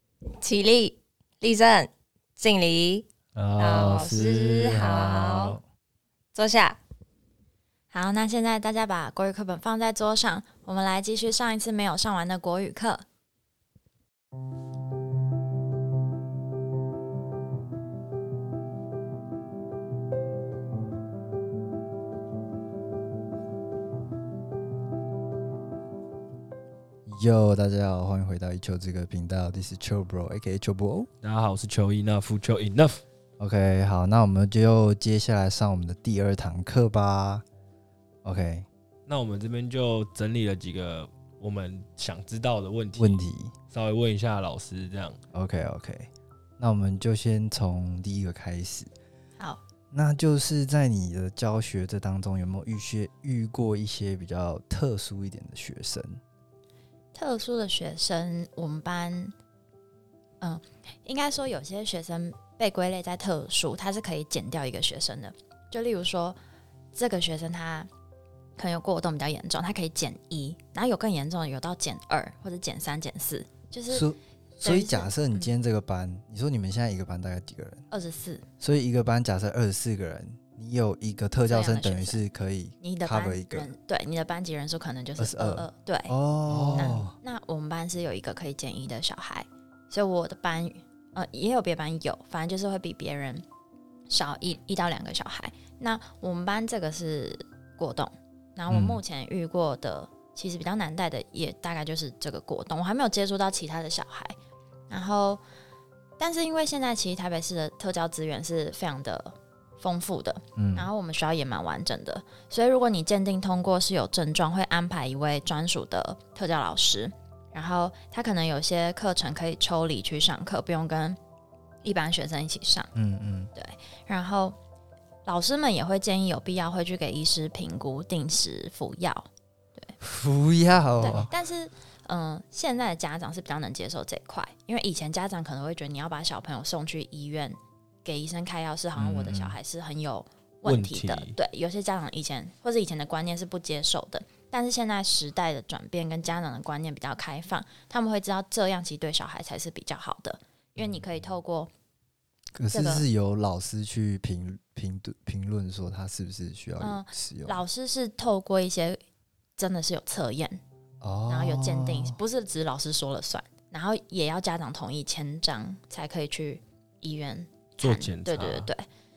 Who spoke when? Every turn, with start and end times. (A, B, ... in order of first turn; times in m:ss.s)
0:00.4-0:03.1 A
0:03.4-0:05.6 B
0:03.6-0:05.6 A
0:04.0-0:04.3 C
0:06.3-0:06.8 A
0:07.9-0:13.0 C
0:27.1-0:31.1 B
0:31.2-0:33.0 D
0:33.4-0:37.4 B
0:38.2-0:38.7 B
0:39.1-0:45.2 D
0:43.0-0:43.5 B
0:45.3-0:48.9 B
0:49.9-0:56.2 B
0:57.1-0:59.3 C
1:00.4-1:06.4 C
1:06.9-1:07.9 C
1:08.6-1:14.1 C
1:13.9-1:17.8 B
1:14.6-1:15.5 C
1:17.9-1:18.5 C
1:18.6-1:23.7 B
1:21.5-1:22.2 C
1:22.8-1:33.4 C
1:25.2-1:27.1 B
1:34.1-1:44.4 C
1:38.7-1:39.0 B
1:44.9-1:45.4 C
1:46.2-2:01.2 C
1:50.6-1:50.9 B
2:01.8-2:02.9 C
2:03.0-2:03.5 B
2:03.6-2:04.6 C
2:05.2-2:09.9 C
2:10.0-2:11.3 B
2:11.0-2:31.7 C
2:19.0-2:19.6 B
2:20.6-2:21.4 D
2:32.5-2:37.6 B
2:32.7-2:33.1 C
2:36.8-2:39.0 C
2:39.6-2:40.6 C
2:41.0-2:42.2 B
2:41.3-2:48.9 C
2:47.8-2:48.7 D